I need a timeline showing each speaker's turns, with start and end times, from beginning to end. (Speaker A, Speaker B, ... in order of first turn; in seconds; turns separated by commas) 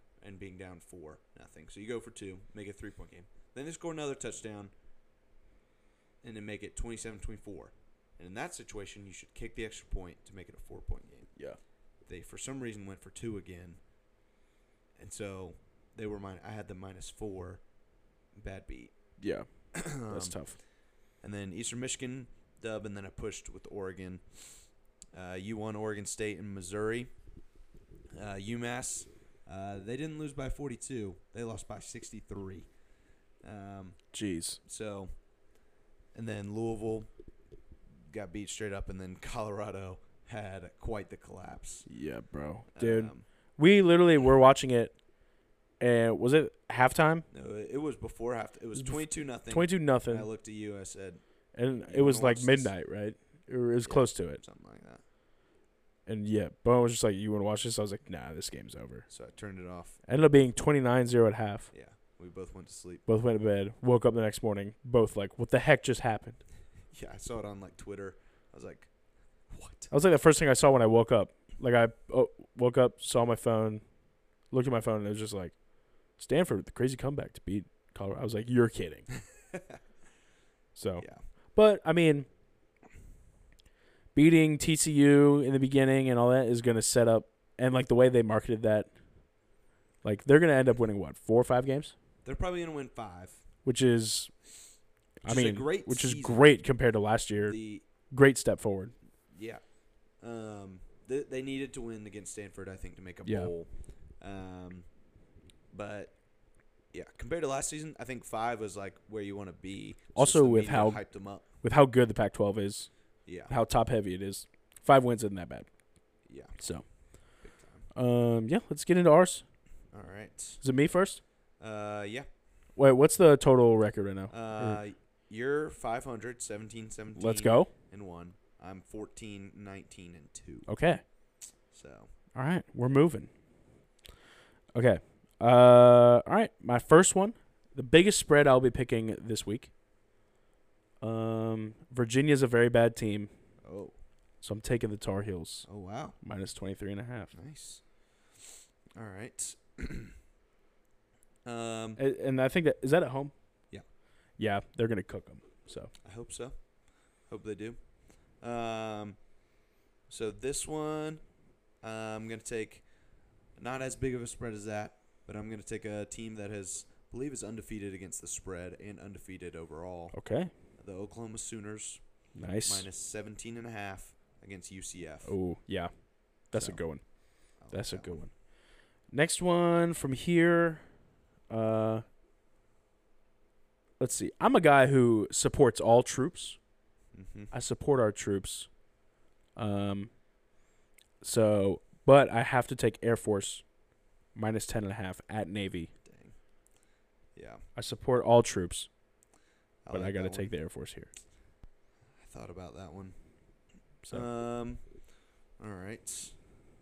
Speaker A: 0.2-4.7, Speaker A: 6.2-11.3, Speaker A: 12.1-13.8, Speaker A: 15.0-17.6, Speaker A: 18.3-18.9, Speaker B: 19.2-20.6, Speaker A: 19.7-20.4, Speaker A: 21.2-27.1, Speaker A: 28.1-32.7, Speaker A: 33.4-34.0, Speaker B: 34.1-34.6, Speaker A: 34.6-35.1, Speaker A: 36.1-37.1, Speaker A: 38.1-41.9, Speaker B: 41.9-45.0, Speaker A: 42.8-43.2, Speaker B: 45.8-47.3, Speaker A: 47.3-51.2, Speaker B: 48.7-50.3, Speaker B: 51.5-54.4, Speaker A: 51.9-52.8, Speaker A: 53.8-55.0, Speaker B: 56.1-59.1, Speaker A: 59.1-60.0, Speaker B: 60.1-61.7, Speaker A: 61.7-63.0, Speaker B: 63.1-66.4, Speaker A: 66.9-68.9, Speaker A: 69.5-69.9, Speaker B: 69.9-79.1, Speaker A: 79.5-79.8, Speaker B: 80.8-82.3, Speaker B: 84.1-89.4, Speaker B: 90.0-91.9, Speaker A: 92.2-93.4, Speaker B: 93.6-94.3, Speaker B: 95.2-99.0, Speaker A: 95.2-96.4, Speaker A: 97.4-97.8, Speaker A: 99.3-99.6, Speaker A: 100.2-104.9, Speaker B: 103.2-103.5, Speaker A: 105.7-106.2, Speaker A: 106.9-111.5, Speaker B: 110.2-112.9, Speaker A: 113.2-113.5, Speaker B: 113.4-115.7, Speaker A: 116.2-116.6, Speaker B: 116.5-117.4, Speaker A: 117.4-117.9, Speaker B: 117.9-119.5, Speaker A: 119.9-120.6, Speaker B: 120.6-121.2, Speaker A: 121.6-122.3, Speaker B: 122.8-124.8, Speaker A: 124.3-130.7, Speaker B: 127.2-127.7, Speaker B: 130.7-131.1, Speaker A: 131.7-132.1, Speaker B: 132.3-133.3, Speaker B: 134.7-139.7, Speaker B: 141.0-143.3, Speaker A: 143.6-144.0, Speaker B: 144.4-147.3, Speaker A: 145.7-146.2, Speaker A: 147.3-147.9, Speaker A: 149.0-150.1, Speaker A: 151.4-152.0, Speaker B: 152.0-153.6, Speaker B: 154.3-155.9, Speaker A: 156.0-159.3, Speaker A: 160.1-161.3, Speaker A: 161.8-162.9, Speaker A: 163.5-175.4, Speaker B: 170.1-170.5, Speaker B: 172.3-172.9, Speaker B: 175.2-182.0, Speaker A: 176.5-178.2, Speaker B: 184.0-186.7, Speaker A: 187.1-187.5, Speaker B: 187.5-188.8, Speaker B: 189.6-190.2, Speaker B: 191.2-195.9, Speaker A: 196.0-196.4, Speaker A: 197.3-197.6, Speaker B: 197.8-198.9, Speaker A: 199.8-200.5, Speaker B: 199.9-201.1, Speaker A: 202.1-203.2, Speaker A: 204.1-204.9, Speaker A: 205.6-206.4